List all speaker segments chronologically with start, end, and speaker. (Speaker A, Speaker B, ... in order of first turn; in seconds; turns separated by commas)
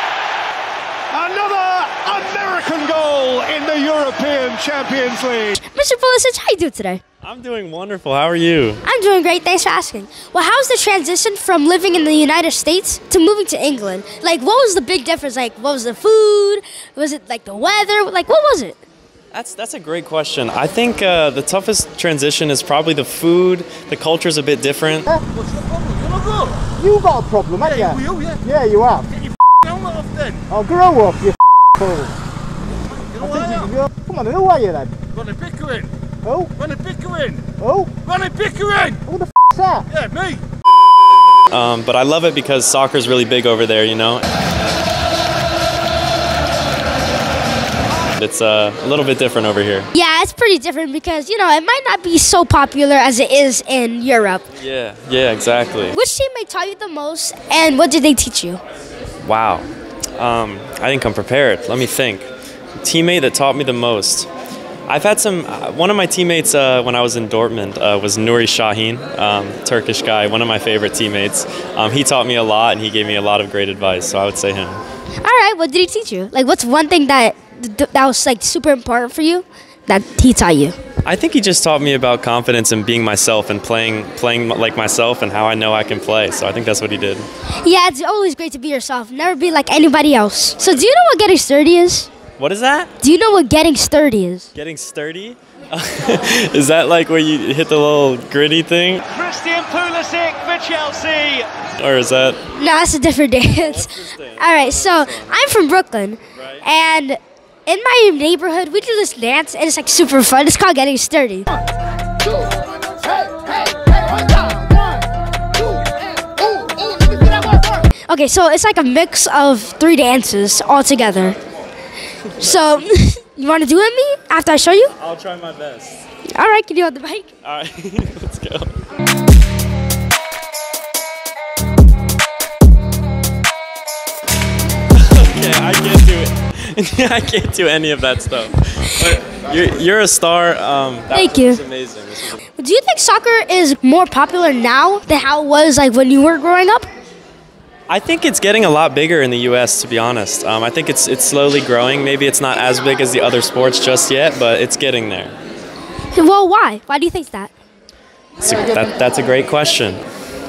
Speaker A: 1.1-5.6, Speaker B: 5.6-7.0, Speaker C: 7.2-8.8, Speaker B: 8.8-18.8, Speaker C: 19.3-25.1, Speaker D: 25.4-26.6, Speaker E: 26.8-29.1, Speaker D: 27.9-28.4, Speaker D: 29.6-30.4, Speaker E: 30.5-32.1, Speaker D: 33.1-33.6, Speaker E: 33.2-35.0, Speaker D: 35.2-35.9, Speaker E: 36.2-36.5, Speaker D: 36.6-37.5, Speaker E: 37.6-38.0, Speaker D: 38.1-39.0, Speaker E: 39.0-39.9, Speaker D: 40.0-40.4, Speaker C: 41.5-44.3, Speaker C: 48.2-49.9, Speaker B: 49.9-54.4, Speaker C: 54.6-56.0, Speaker B: 55.9-58.6, Speaker C: 59.2-59.7, Speaker C: 60.2-62.3, Speaker C: 62.8-64.3, Speaker C: 64.9-74.8, Speaker B: 75.2-80.8, Speaker C: 81.0-87.3, Speaker B: 87.6-92.1, Speaker C: 92.4-92.9, Speaker B: 93.0-94.5, Speaker C: 94.5-99.0, Speaker A: 99.1-101.5, Speaker C: 101.8-102.4, Speaker B: 102.5-111.5, Speaker C: 103.4-105.4, Speaker C: 106.3-106.6, Speaker B: 118.1-121.4, Speaker B: 122.4-124.9, Speaker C: 125.0-126.0, Speaker B: 126.3-127.3, Speaker C: 127.4-128.8, Speaker C: 134.9-142.4, Speaker B: 141.1-141.6, Speaker B: 142.6-146.9, Speaker C: 147.9-155.3, Speaker B: 156.1-157.5, Speaker C: 158.4-160.0